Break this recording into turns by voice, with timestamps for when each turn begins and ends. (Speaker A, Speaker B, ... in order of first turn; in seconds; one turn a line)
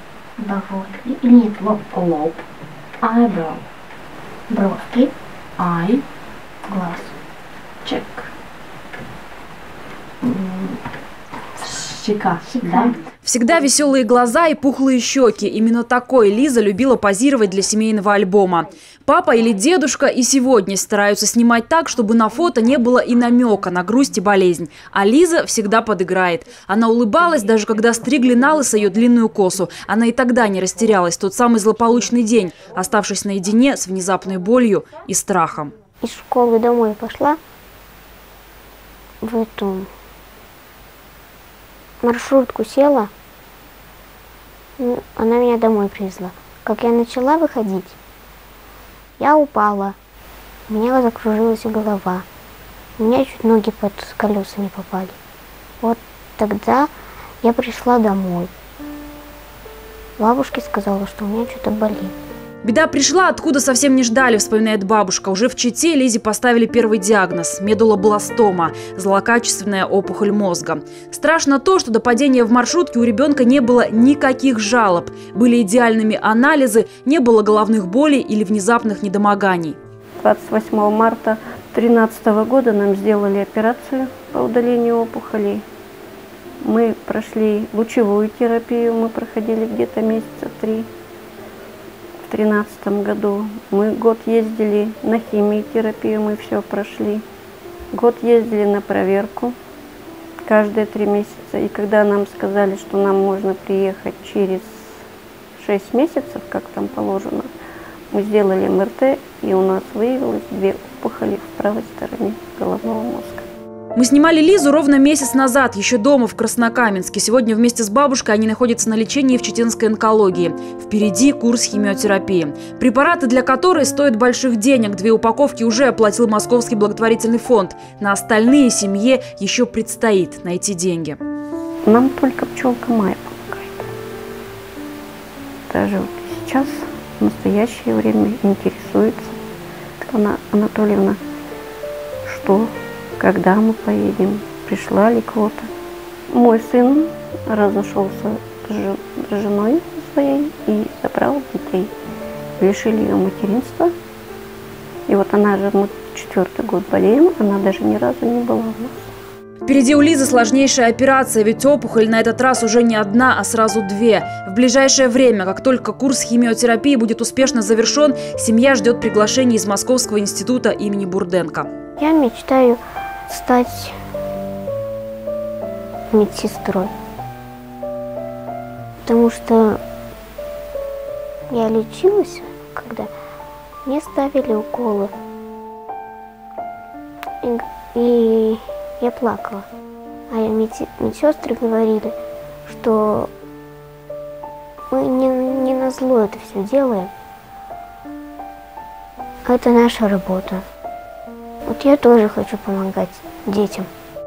Speaker A: 0.4-1.7
Speaker B: 1.3-2.5
Speaker B: 3.0-3.6
Speaker A: 4.5-5.1
Speaker B: 5.6-6.0
Speaker A: 6.7-7.1
Speaker B: 7.8-8.3
Speaker B: 10.2-10.8
Speaker B: 11.6-13.0
Speaker A: 12.6-12.9
Speaker C: 13.2-35.7
Speaker A: 36.0-37.4
Speaker A: 39.2-39.9
Speaker A: 42.0-43.1
Speaker A: 44.8-48.0
Speaker A: 49.2-50.0
Speaker A: 50.7-52.2
Speaker A: 53.0-55.2
Speaker A: 55.8-56.9
Speaker A: 57.4-58.5
Speaker A: 60.2-62.1
Speaker C: 62.6-79.8
Speaker D: 80.2-85.6
Speaker D: 86.6-90.9
Speaker D: 92.2-97.2
Speaker D: 97.9-99.5
Speaker D: 100.5-105.0
Speaker D: 105.5-107.5
Speaker D: 108.1-113.5
Speaker C: 113.9-131.2
Speaker D: 131.8-133.9
Speaker D: 135.7-139.4
Speaker D: 140.0-141.2
Speaker D: 142.2-145.7
Speaker D: 146.3-151.9
Speaker D: 152.6-153.9
Speaker D: 155.1-159.1
Speaker C: 159.6-171.7
Speaker A: 172.0-173.9
Speaker A: 176.1-176.9
Speaker A: 179.1-179.8
Speaker A: 181.5-183.1
Speaker A: 183.8-185.1
Speaker A: 187.4-189.7
Speaker A: 190.3-193.3
Speaker A: 194.9-197.1
Speaker A: 199.4-200.6
Speaker A: 201.7-203.9